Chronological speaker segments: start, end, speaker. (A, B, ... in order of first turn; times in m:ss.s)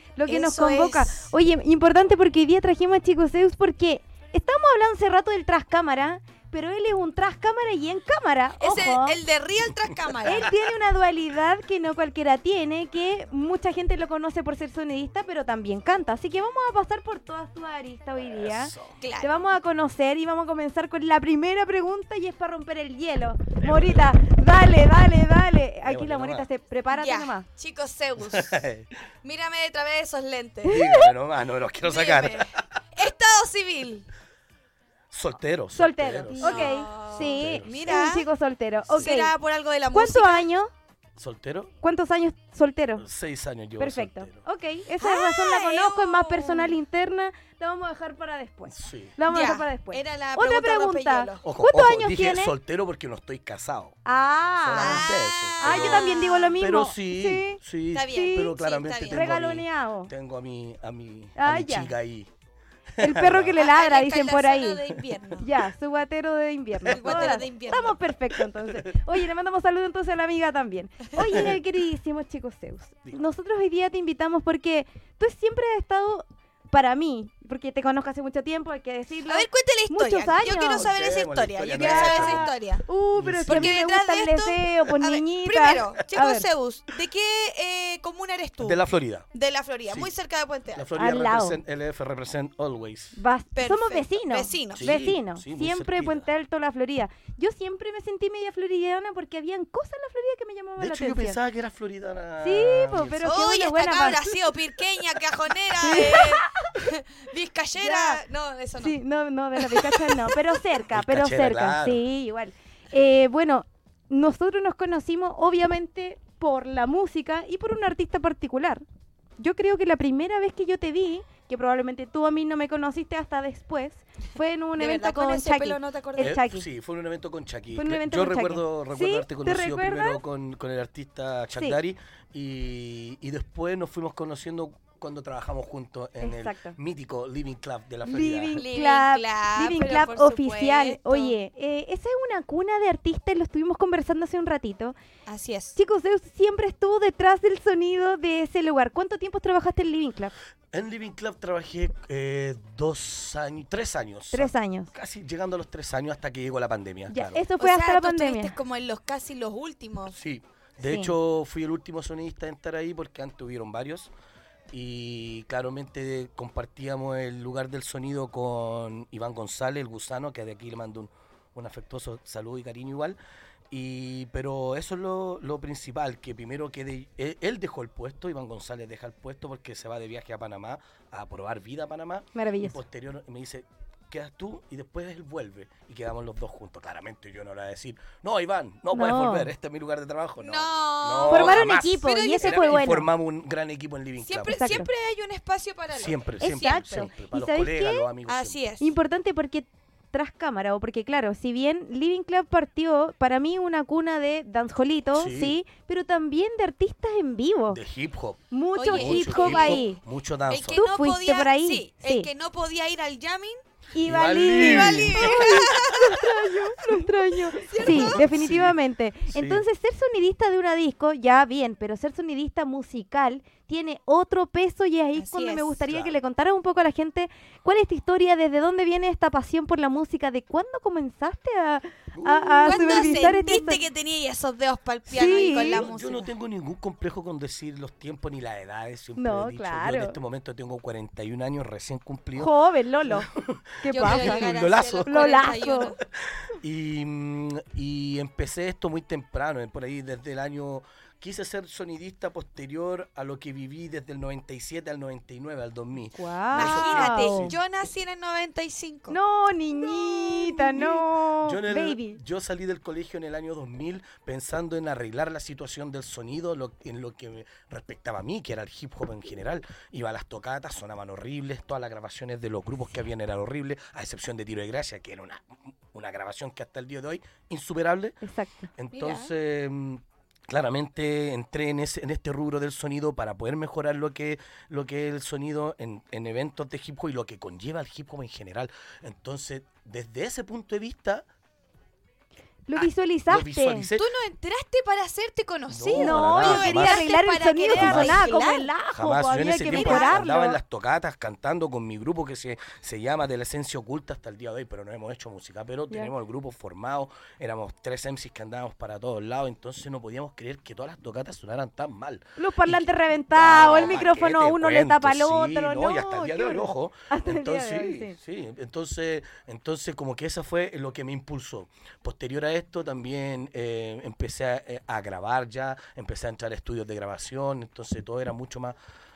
0:00.2-0:09.2 A
0:00.3-0:01.3 B
0:08.6-0:10.5 B
0:10.2-0:27.5 A
0:10.3-0:10.6 C
0:18.3-0:19.0 C
0:19.0-0:19.5 B
0:23.6-0:24.1 C
0:25.8-0:26.5 C
0:26.9-0:28.5 B
0:28.2-0:29.0 C
0:29.2-0:30.8 B
0:30.6-0:31.1 A
0:30.6-0:32.8 C
0:31.8-0:34.1 B
0:35.1-0:37.8 C
0:35.7-0:39.3 A
0:36.4-0:38.3 B
0:38.8-0:39.1 C
0:38.9-0:40.5 B
0:39.9-0:40.7 A
0:41.2-0:41.7 C
0:41.8-0:43.0 A
0:43.0-0:44.4 C
0:43.8-0:52.5 A
0:45.0-0:46.8 B
0:48.7-0:49.2 C
0:49.3-0:51.4 B
0:51.4-0:53.9 C
0:54.0-0:58.5 A
0:54.6-1:02.3 C
0:54.7-0:56.5 B
0:57.9-0:59.3 B
0:59.1-1:00.1 A
1:01.4-1:01.9 A
1:03.0-1:03.6 C
1:03.0-1:04.8 A
1:03.6-1:05.5 B
1:05.4-1:20.9 A
1:06.8-1:07.4 C
1:06.9-1:07.9 B
1:08.3-1:08.9 C
1:11.2-1:11.6 C
1:19.2-1:22.8 B
1:20.3-1:22.5 C
1:21.8-1:26.5 A
1:23.1-1:23.8 C
1:23.5-1:28.8 B
1:28.6-1:29.3 C
1:29.3-1:30.9 B
1:30.7-1:33.2 C
1:30.9-1:31.6 A
1:33.1-1:41.4 A
1:33.5-1:34.9 B
1:34.7-1:36.3 C
1:40.8-1:43.3 C
1:42.4-1:44.3 A
1:43.2-1:49.0 B
1:45.8-1:46.8 A
1:47.8-1:48.2 A
1:48.8-1:58.8 A
1:49.6-1:50.4 B
1:50.9-1:52.0 C
1:59.4-2:06.6 A
2:04.8-2:06.4 B
2:06.2-2:18.6 C
2:07.7-2:10.2 A
2:16.2-2:16.8 A
2:18.0-2:24.9 A
2:18.2-2:21.3 B
2:25.2-2:25.8 B
2:25.7-2:30.3 A
2:30.7-2:37.4 C
2:34.3-2:34.9 A
2:37.1-2:38.5 A
2:37.6-2:40.2 B
2:40.1-2:44.1 C
2:40.8-2:41.1 A
2:44.7-2:53.2 C
2:53.7-3:14.9 C
3:02.3-3:02.8 A
3:08.9-3:09.5 A
3:10.4-3:13.0 B
3:11.3-3:13.1 A
3:14.2-3:17.1 B
3:14.5-3:14.9 A
3:15.9-3:18.6 C
3:16.4-3:18.1 A
3:18.2-3:18.9 B
3:18.8-3:27.8 A
3:25.1-3:25.6 C
3:27.7-3:30.9 C
3:28.5-3:30.0 A
3:28.7-3:30.0 B
3:30.5-3:33.6 B
3:30.7-3:32.3 A
3:33.9-3:53.8 A
3:34.0-3:38.8 C
3:34.4-3:36.2 B
3:37.7-3:38.2 B
3:39.3-3:39.6 C
3:45.1-3:45.8 B
3:45.9-3:46.1 C
3:52.1-3:53.4 C
3:52.6-3:56.3 B
3:55.1-3:55.8 A
3:55.6-4:02.5 C
3:59.2-4:00.2 A
4:02.3-4:03.3 A
4:03.0-4:05.5 C
4:03.8-4:06.0 A
4:03.9-4:06.0 B
4:06.3-4:17.6 C
4:16.1-4:17.5 A
4:16.5-4:19.2 B
4:19.1-4:22.2 A
4:20.0-4:20.7 B
4:20.8-4:38.2 C
4:38.2-4:38.7 A
4:38.7-4:51.3 C
4:38.9-4:39.3 B
4:52.7-4:53.9 A
4:52.8-4:54.1 C
4:54.0-4:58.7 B
4:55.7-4:57.0 C
4:56.0-5:00.6 A
4:57.7-4:58.3 C
4:58.9-5:28.8 C
4:59.7-5:00.3 B
5:12.4-5:18.2 A
5:13.6-5:14.0 B